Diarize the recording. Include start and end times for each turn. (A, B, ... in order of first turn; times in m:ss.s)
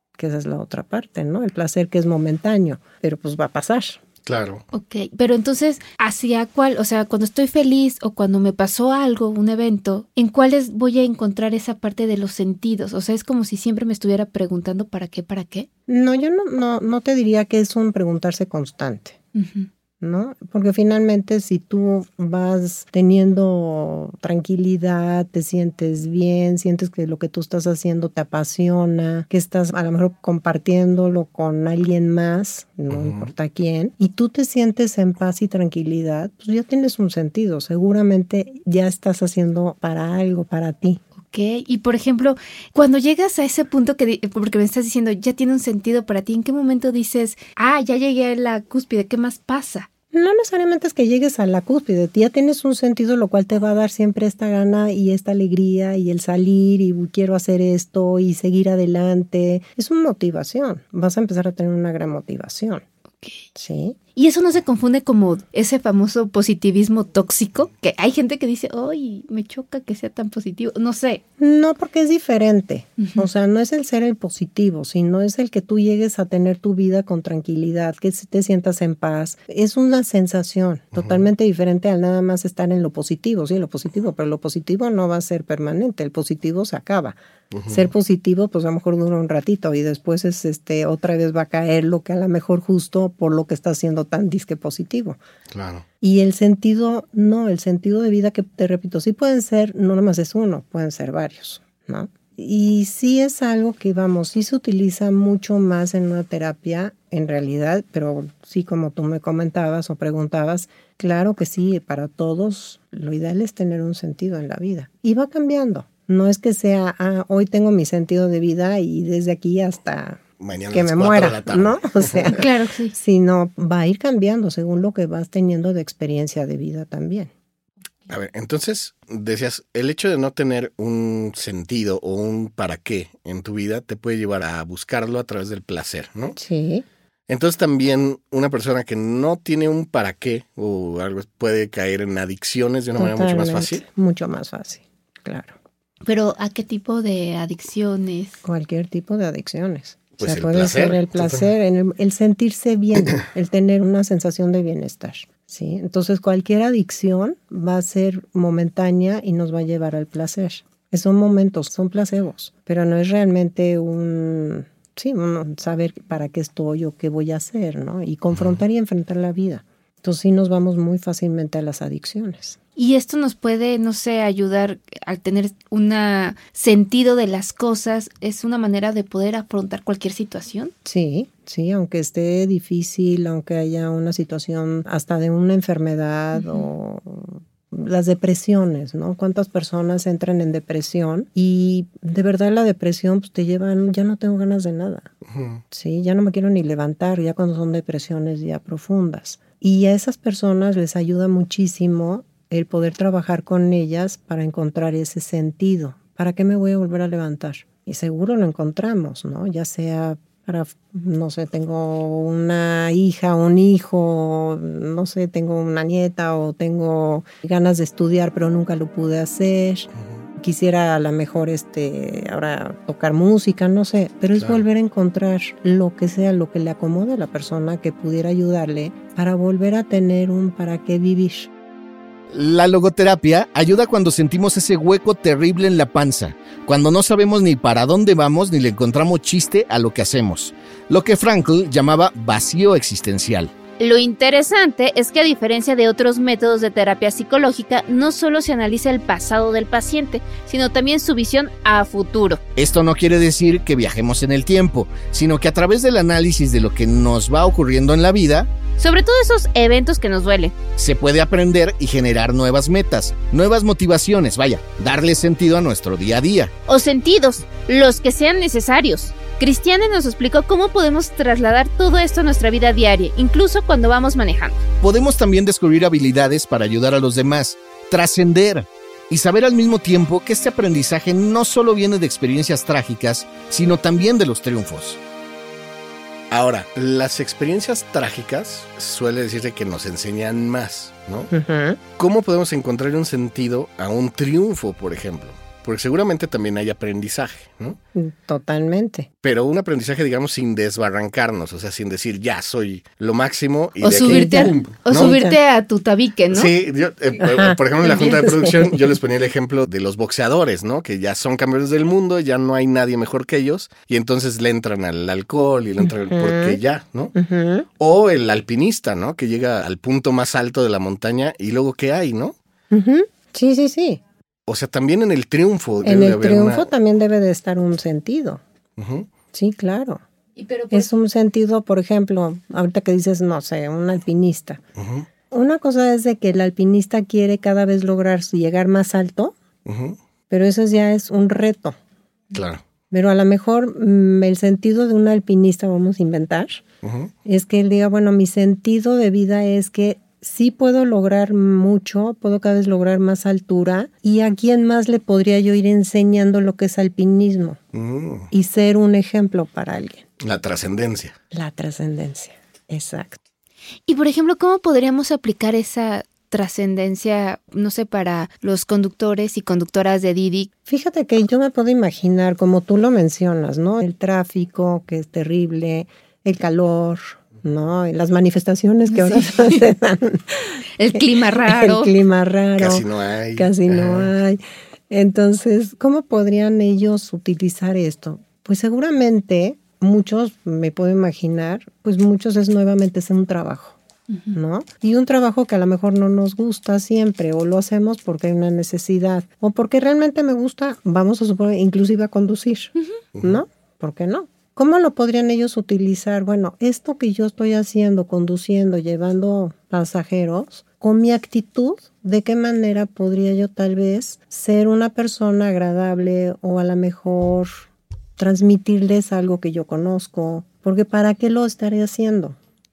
0:00.2-0:04.0 A
0:04.2-0:04.6 B
0:04.7-0:15.7 C
0:15.9-0:19.2 A
0:19.4-0:19.7 C
0:20.0-0:41.0 A
0:32.9-0:33.3 B
0:41.2-0:49.9 C
0:50.1-1:02.8 A
1:03.6-1:04.0 A
1:04.2-1:11.2 C
1:11.4-1:27.2 A
1:13.0-1:13.3 C
1:27.5-1:27.9 B
1:27.7-1:35.2 A
1:35.5-1:35.8 B
1:36.0-2:07.3 A
2:00.4-2:02.3 B
2:02.3-2:03.0 C
2:08.1-2:16.4 B
2:16.4-2:16.8 A
2:17.3-2:23.8 B
2:23.0-2:25.6 A
2:26.0-2:28.4 C
2:28.4-2:52.6 A
2:30.2-2:31.4 B
2:48.3-2:48.6 B
2:52.8-3:00.7 C
3:00.8-3:15.1 A
3:06.4-3:06.6 C
3:15.3-3:15.6 B
3:15.7-3:51.5 A
3:40.0-3:40.2 B
3:52.3-4:03.5 D
4:03.8-4:12.4 C
4:12.6-4:18.5 D
4:18.8-4:20.6 C
4:20.8-4:26.5 D
4:26.7-4:34.6 C
4:34.8-4:45.0 D
4:46.3-4:51.3 B
4:51.3-4:51.8 A
4:52.0-4:57.8 B
4:57.9-4:59.1 A
4:59.2-5:05.1 B
5:03.8-5:06.5 C
5:04.0-5:05.4 A
5:06.3-5:17.1 B
5:07.2-5:09.0 A
5:15.8-5:16.6 A
5:17.1-5:17.7 A
5:17.8-5:22.4 B
5:22.7-5:24.0 A
5:24.5-5:26.7 B
5:25.8-5:28.4 A
5:28.8-5:29.1 B
5:29.3-5:30.0 A
5:30.4-5:30.9 C
5:30.7-5:34.6 A
5:34.8-5:35.1 B
5:35.3-5:39.4 A
5:39.6-5:40.0 B
5:40.3-5:41.8 A
5:42.3-5:42.6 B
5:42.9-5:46.6 A
5:46.8-5:47.1 B
5:47.2-5:57.6 A
5:57.7-5:58.3 B
5:58.3-6:00.0 A
6:00.2-6:01.2 B
6:01.3-6:03.2 A
6:03.9-6:10.5 C
6:10.7-6:33.8 A
6:18.9-6:19.6 C
6:20.8-6:21.9 C
6:22.6-6:24.1 B
6:34.1-6:34.4 C
6:34.3-6:57.6 A
6:43.2-6:43.4 B
6:58.2-7:02.4 A